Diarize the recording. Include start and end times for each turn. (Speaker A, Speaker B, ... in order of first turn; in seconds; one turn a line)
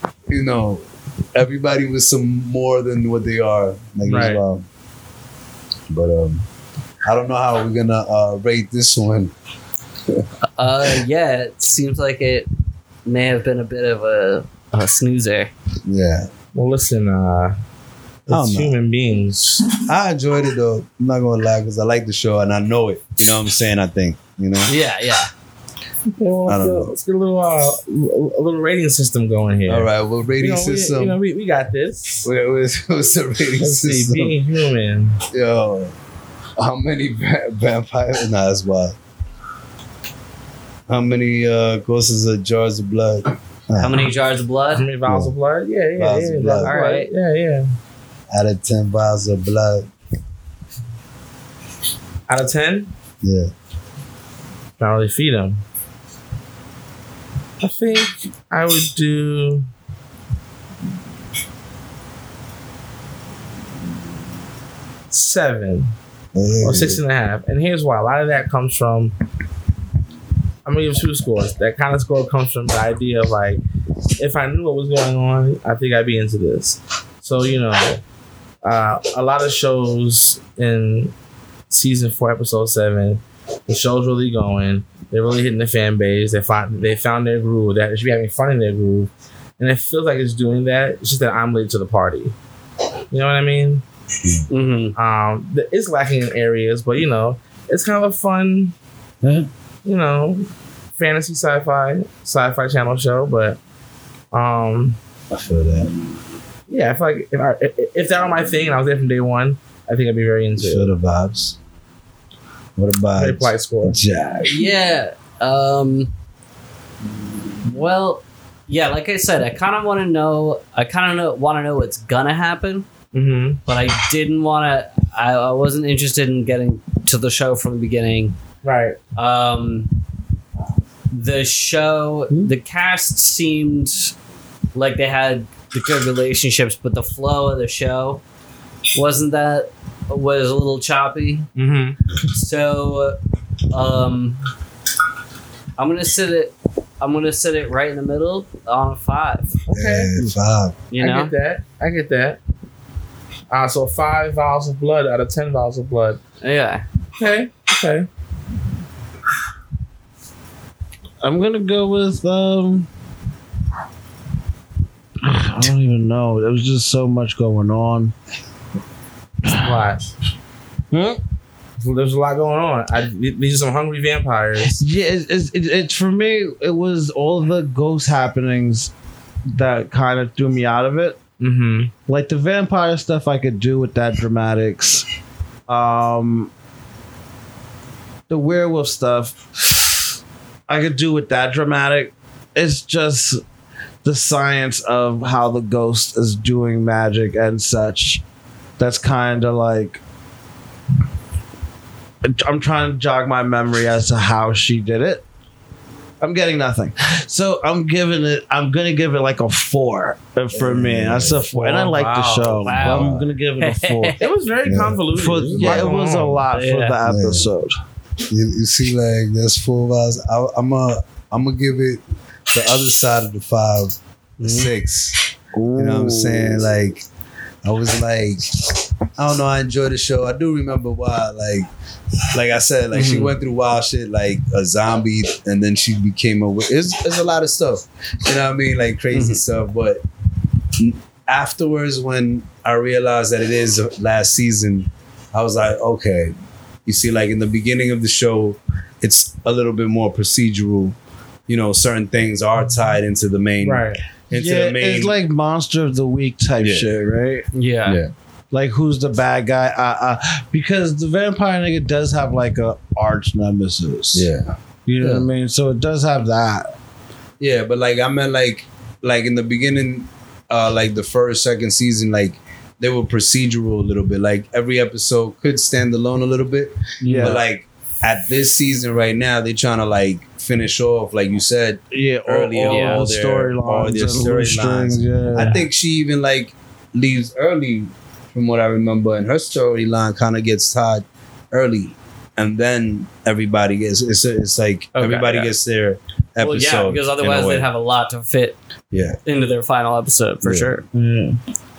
Speaker A: 0.3-4.7
Speaker B: 4.0-4.4
Speaker A: 5.9-6.4
Speaker A: 7.0-9.3
Speaker C: 10.6-12.5
Speaker C: 13.1-15.5
Speaker A: 15.8-16.3
Speaker B: 16.5-17.6
Speaker B: 18.3-19.7
Speaker A: 18.3-18.7
Speaker A: 19.9-24.7
Speaker C: 24.7-25.3
Speaker B: 26.2-32.3
Speaker A: 26.5-26.9
Speaker A: 29.7-31.2
Speaker A: 32.2-34.4
Speaker B: 33.6-35.2
Speaker A: 35.3-35.9
Speaker A: 36.6-39.0
Speaker A: 40.9-44.1
Speaker C: 43.8-44.9
Speaker B: 44.7-47.7
Speaker A: 45.1-45.3
Speaker A: 46.0-46.7
Speaker C: 46.6-47.1
Speaker A: 48.3-49.9
Speaker B: 52.3-52.9
Speaker A: 53.2-53.5
Speaker B: 54.8-55.6
Speaker B: 57.6-59.7
Speaker B: 65.1-65.9
Speaker A: 66.3-67.0
Speaker B: 66.6-69.1
Speaker B: 70.7-73.6
Speaker B: 74.2-78.0
Speaker B: 78.6-81.2
Speaker B: 81.7-92.3
Speaker B: 93.1-93.8
Speaker C: 94.5-95.0
Speaker B: 95.0-98.7
Speaker B: 99.8-100.4
Speaker B: 101.0-103.6
Speaker B: 104.3-105.0
Speaker A: 105.3-105.9
Speaker B: 106.7-110.9
Speaker A: 110.6-111.6
Speaker A: 112.8-114.7
Speaker B: 113.2-114.0
Speaker C: 114.5-116.1
Speaker C: 117.7-122.9
Speaker B: 123.1-123.6
Speaker C: 123.7-128.4
Speaker B: 128.6-129.0
Speaker C: 129.2-129.9
Speaker C: 131.1-134.1
Speaker C: 134.7-138.2
Speaker C: 138.9-141.5
Speaker B: 141.6-142.0
Speaker C: 142.3-143.2
Speaker C: 143.7-144.4
Speaker C: 145.8-149.5
Speaker B: 149.7-150.1
Speaker A: 149.7-150.8
Speaker C: 150.9-151.3
Speaker B: 151.0-152.4
Speaker B: 153.5-156.2
Speaker C: 156.4-156.8
Speaker B: 157.2-158.1
Speaker D: 161.2-162.9
Speaker D: 165.2-168.1
Speaker D: 169.5-169.8
Speaker B: 169.5-170.0
Speaker D: 170.9-171.2
Speaker B: 171.8-174.8
Speaker D: 174.8-178.9
Speaker D: 179.5-181.2
Speaker B: 181.4-181.9
Speaker D: 182.1-185.1
Speaker D: 185.7-186.5
Speaker D: 188.3-190.1
Speaker D: 190.7-193.4
Speaker D: 194.0-198.2
Speaker D: 198.8-200.0
Speaker D: 202.3-205.2
Speaker D: 206.2-214.3
Speaker A: 210.5-211.5
Speaker B: 211.5-212.2
Speaker C: 211.9-214.2
Speaker A: 212.8-213.3
Speaker B: 214.2-216.4
Speaker A: 214.7-215.9
Speaker D: 215.1-217.8
Speaker C: 216.5-217.0
Speaker A: 217.0-217.5
Speaker A: 218.3-227.1
Speaker C: 224.4-224.7
Speaker D: 225.5-226.7
Speaker A: 227.6-228.5
Speaker A: 229.2-231.7
Speaker A: 232.3-240.0
Speaker C: 232.9-233.3
Speaker C: 239.1-239.4
Speaker A: 240.8-246.3
Speaker A: 246.9-251.0
Speaker A: 251.5-255.2
Speaker B: 253.6-254.0
Speaker D: 254.3-257.5
Speaker A: 256.6-256.9
Speaker C: 257.5-258.0
Speaker A: 257.9-258.1
Speaker D: 258.5-264.3
Speaker A: 264.1-265.3
Speaker D: 264.9-266.7
Speaker A: 267.4-297.7
Speaker D: 277.0-277.4
Speaker D: 281.9-285.6
Speaker C: 282.7-283.1
Speaker C: 294.9-295.5
Speaker C: 296.4-298.6
Speaker A: 298.9-299.2
Speaker C: 299.2-300.8
Speaker D: 300.9-301.4